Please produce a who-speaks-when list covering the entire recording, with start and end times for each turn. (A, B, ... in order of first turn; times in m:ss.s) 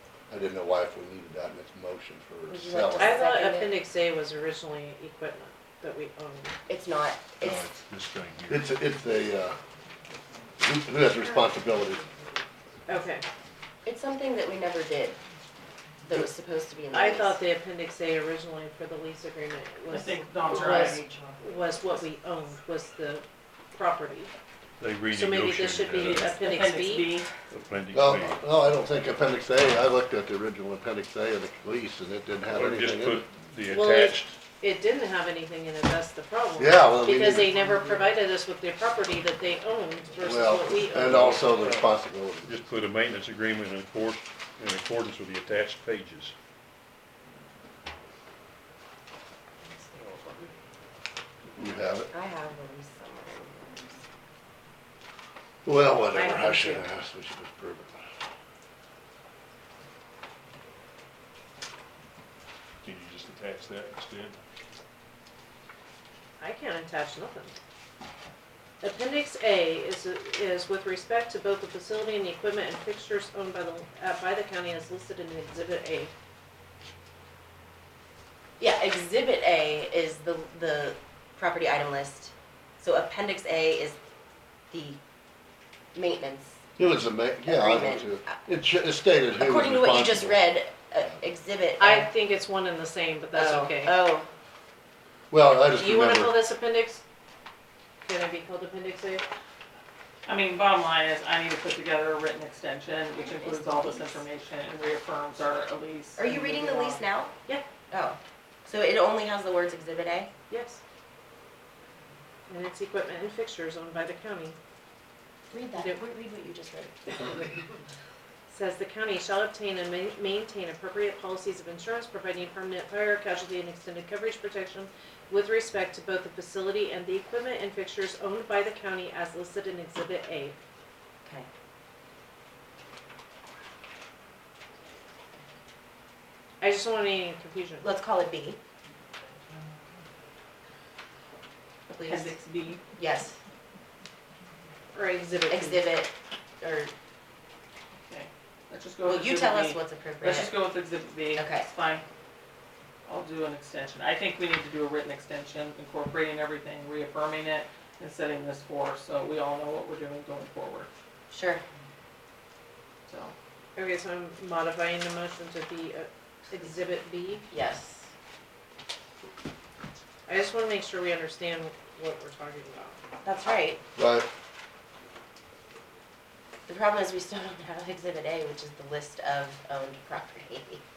0:00.3-0:03.2 A
0:02.5-0:03.8 B
0:03.0-0:06.5 C
0:06.7-0:07.7 B
0:07.4-0:08.7 D
0:08.5-0:09.6 A
0:10.6-0:12.0 A
0:12.9-0:13.2 C
0:13.8-0:15.2 B
0:16.0-0:17.4 B
0:16.9-0:24.3 C
0:19.9-0:21.1 E
0:24.8-0:26.4 D
0:25.1-0:27.1 C
0:26.3-0:27.3 E
0:27.5-0:28.4 D
0:27.9-0:33.2 A
0:32.5-0:34.4 D
0:33.7-0:41.3 C
0:36.6-0:37.6 A
0:40.2-0:42.7 A
0:41.1-0:41.9 D
0:42.5-0:46.3 D
0:51.6-0:52.1 A
0:52.1-0:54.0 B
0:55.6-0:58.0 A
0:56.1-0:56.9 C
1:02.8-1:04.4 D
1:06.4-1:07.6 C
1:08.8-1:16.1 C
1:18.6-1:24.0 B
1:24.7-1:25.0 B
1:26.0-1:26.6 B
1:26.8-1:30.5 A
1:27.4-1:28.4 B
1:29.4-1:32.1 B
1:31.8-1:34.0 C
1:33.3-1:34.3 B
1:35.3-1:36.4 A
1:35.8-1:37.0 C
1:38.0-1:39.2 C
1:40.3-1:47.0 E
1:43.1-1:44.2 B
1:46.2-1:47.4 B
1:47.9-1:50.3 B
1:50.5-1:50.8 C
1:52.5-1:54.6 C
1:55.5-1:57.8 B
1:58.5-2:10.6 C
2:16.6-2:17.9 C
2:17.8-2:18.6 B
2:21.9-2:22.4 B
2:21.9-2:22.8 E
2:23.0-2:23.4 B
2:24.9-2:25.8 C
2:25.5-2:26.9 B
2:28.1-2:32.0 E
2:29.1-2:30.6 B
2:31.3-2:31.7 B
2:33.0-2:40.9 E
2:41.3-2:41.6 B
2:43.1-2:43.3 E
2:43.8-2:47.5 C
2:47.5-2:48.1 B
2:50.3-2:53.0 C
2:53.2-2:53.8 B
2:54.0-2:54.3 A
2:56.7-3:00.8 B